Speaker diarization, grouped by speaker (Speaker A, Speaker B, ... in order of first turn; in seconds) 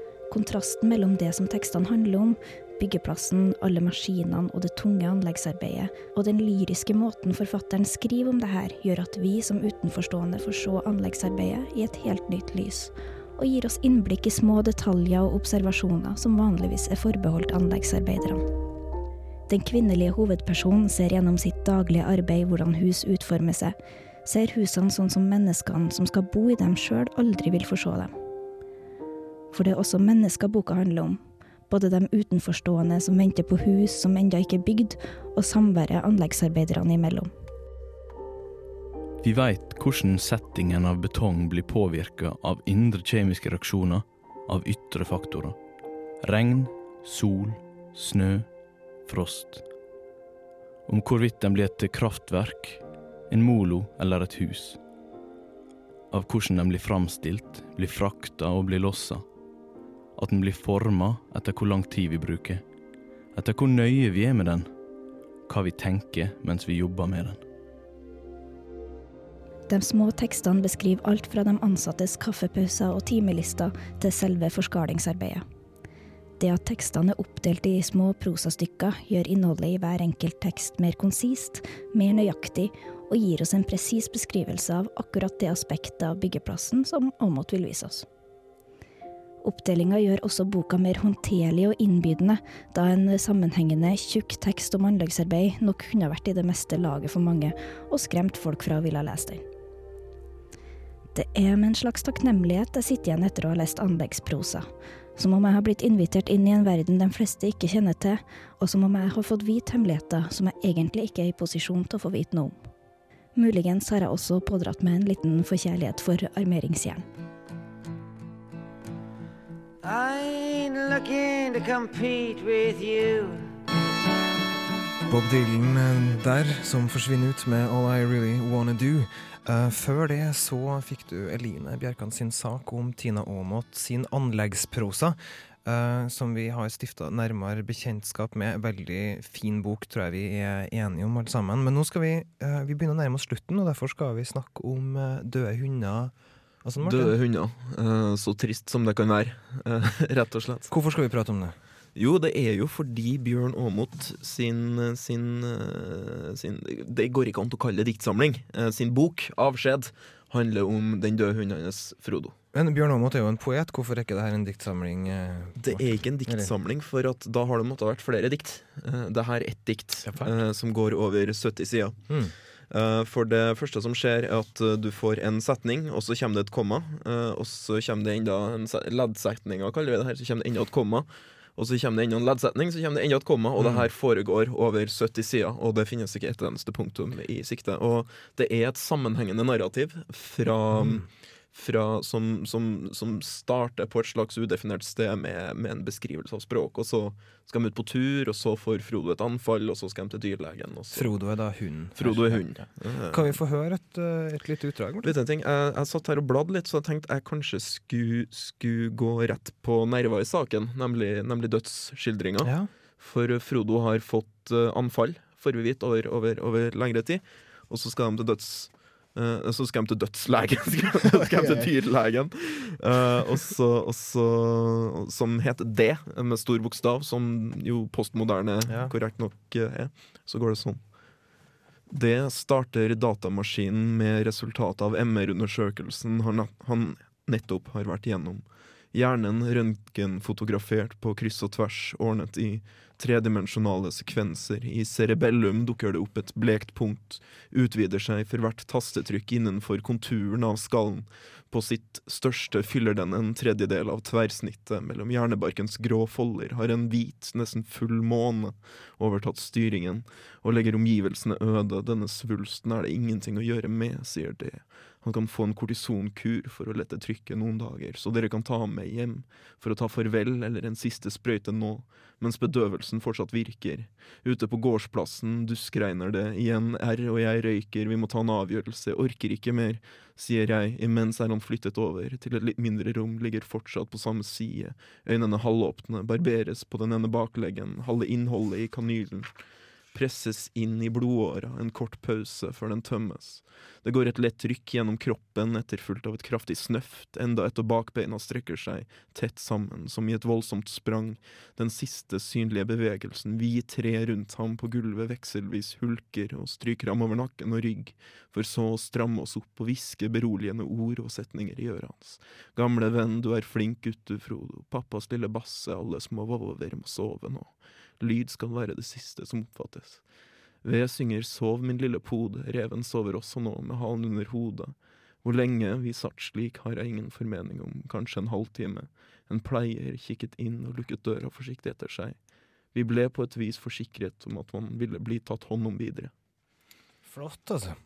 Speaker A: 0.3-18.4, 19.5-28.1, 29.5-37.3, 69.7-75.4, 76.4-88.0, 89.4-99.4, 101.1-112.6, 113.3-117.0
Speaker B: 39.2-45.6, 46.2-48.5, 49.0-49.6, 50.9-54.8, 56.1-59.2, 60.1-62.6, 63.3-64.7, 65.5-67.4
Speaker C: 119.8-123.5
Speaker D: 125.1-147.2, 150.7-151.5, 162.5-166.5, 170.0-170.3, 172.1-172.3, 183.6-183.9, 190.7-191.0, 200.9-205.2, 212.4-212.7, 221.0-221.7, 228.7-228.9, 337.0-337.8
Speaker E: 146.8-150.7, 151.9-162.3, 165.6-172.0, 172.7-201.1, 202.0-203.4, 205.0-230.8, 231.9-289.3, 289.9-320.1, 320.6-332.2, 332.7-336.1